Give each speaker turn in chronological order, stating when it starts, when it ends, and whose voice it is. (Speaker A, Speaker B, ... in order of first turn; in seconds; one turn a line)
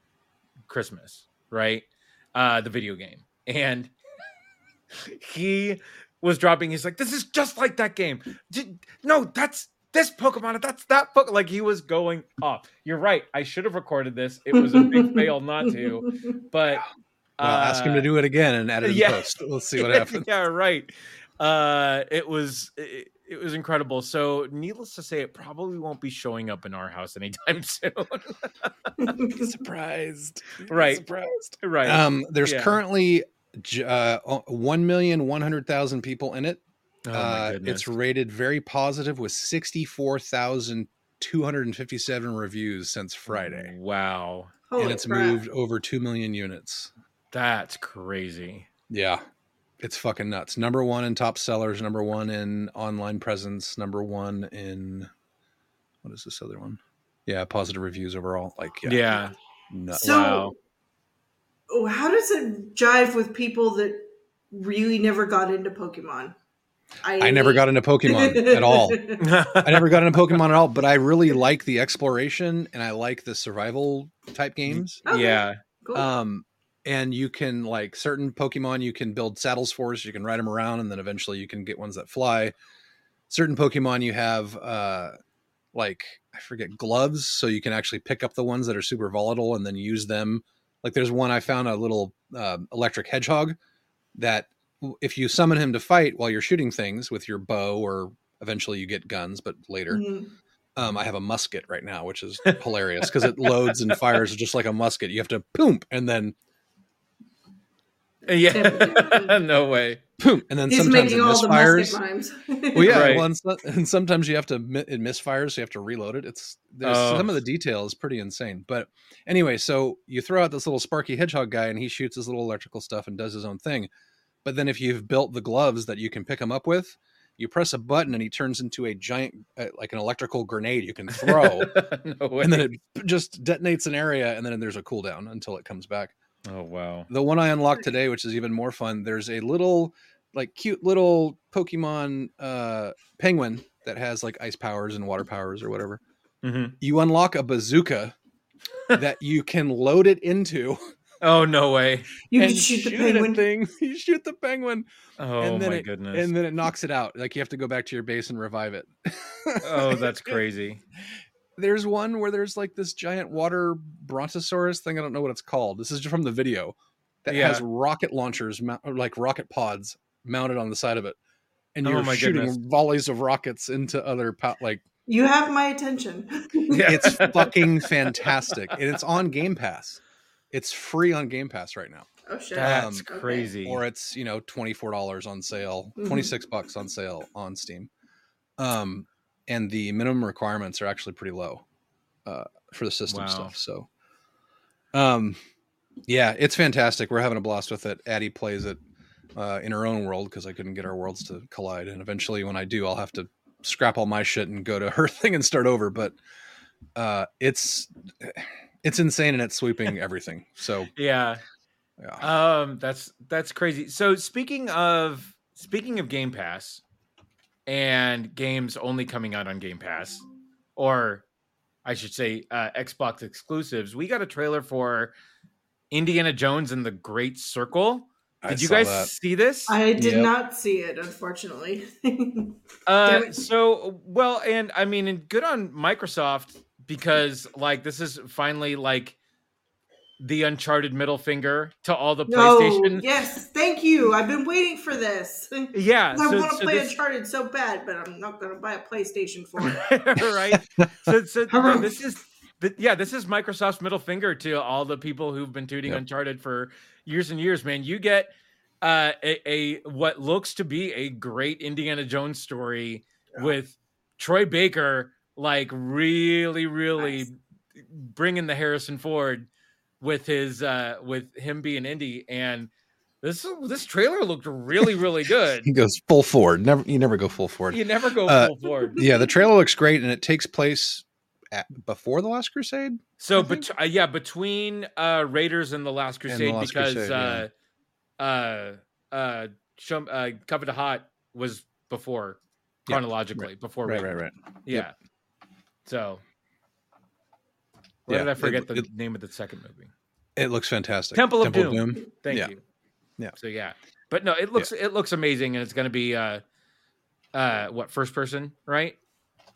Speaker A: 0.7-3.9
Speaker A: 4.9-16.8
Speaker B: 14.5-16.3
Speaker A: 17.4-18.1
Speaker C: 17.4-20.2
Speaker A: 18.8-19.2
Speaker A: 19.8-28.7
Speaker B: 29.0-29.5
Speaker C: 29.3-36.6
Speaker A: 30.6-31.0
Speaker A: 31.6-32.8
Speaker A: 37.0-37.9
Speaker C: 37.1-43.7
Speaker A: 43.3-44.5
Speaker B: 44.7-45.4
Speaker C: 44.8-46.9
Speaker A: 47.3-48.7
Speaker C: 48.9-49.2
Speaker C: 49.8-55.1
Speaker C: 56.0-59.1
Speaker A: 58.8-59.3
Speaker C: 59.7-60.3
Speaker B: 59.9-60.5
Speaker A: 60.0-60.5
Speaker B: 61.7-66.3
Speaker B: 67.0-69.3
Speaker C: 67.2-75.0
Speaker A: 69.2-70.4
Speaker A: 74.7-75.5
Speaker B: 75.0-76.1
Speaker C: 75.9-82.5
Speaker C: 83.3-85.1
Speaker C: 85.7-93.6
Speaker C: 94.2-100.0
Speaker B: 99.9-100.3
Speaker C: 100.8-106.3
Speaker A: 102.4-104.2
Speaker A: 108.3-110.0
Speaker B: 108.5-109.4
Speaker C: 110.2-112.0
Speaker B: 110.7-113.2
Speaker C: 112.7-123.9
Speaker A: 112.8-113.3
Speaker A: 116.8-117.4
Speaker C: 124.4-131.8
Speaker A: 131.1-132.7
Speaker C: 132.4-136.1
Speaker A: 136.4-137.1
Speaker C: 137.1-146.0
Speaker A: 146.4-146.7
Speaker C: 146.8-148.1
Speaker C: 148.9-150.8
Speaker A: 151.2-152.1
Speaker B: 152.3-153.4
Speaker C: 152.3-154.9
Speaker A: 155.2-156.3
Speaker C: 155.4-160.4
Speaker A: 159.6-160.8
Speaker C: 161.6-171.2
Speaker A: 167.3-167.6
Speaker C: 171.7-174.8
Speaker A: 171.8-172.6
Speaker B: 175.1-177.3
Speaker A: 176.7-178.8
Speaker C: 176.8-183.1
Speaker B: 182.2-183.5
Speaker A: 182.6-183.8
Speaker C: 183.6-187.9
Speaker B: 186.0-186.3
Speaker C: 188.6-191.6
Speaker C: 192.2-193.9
Speaker A: 193.1-193.5
Speaker C: 194.9-195.4
Speaker C: 196.1-198.8
Speaker C: 199.3-206.1
Speaker C: 206.9-210.9
Speaker A: 210.9-211.4
Speaker C: 212.0-212.3
Speaker A: 212.2-216.8
Speaker A: 217.7-220.2
Speaker A: 220.8-221.2
Speaker A: 221.8-225.1
Speaker A: 225.9-229.8
Speaker C: 228.4-229.1
Speaker B: 229.7-233.3
Speaker C: 230.0-230.3
Speaker A: 232.9-239.2
Speaker A: 240.2-243.1
Speaker B: 242.3-249.8
Speaker A: 245.7-247.0
Speaker A: 249.6-258.3
Speaker B: 251.5-251.9
Speaker A: 258.8-269.5
Speaker A: 270.0-272.7
Speaker A: 273.2-275.7
Speaker C: 275.6-283.6
Speaker A: 277.7-279.0
Speaker B: 279.0-279.2
Speaker A: 283.2-287.5
Speaker C: 286.3-287.4
Speaker A: 288.2-294.1
Speaker C: 292.9-294.9
Speaker A: 294.6-294.9
Speaker A: 295.8-296.2
Speaker A: 298.1-299.9
Speaker C: 298.1-298.9
Speaker C: 300.4-302.5
Speaker A: 301.1-302.6
Speaker A: 303.4-306.4
Speaker A: 307.3-309.0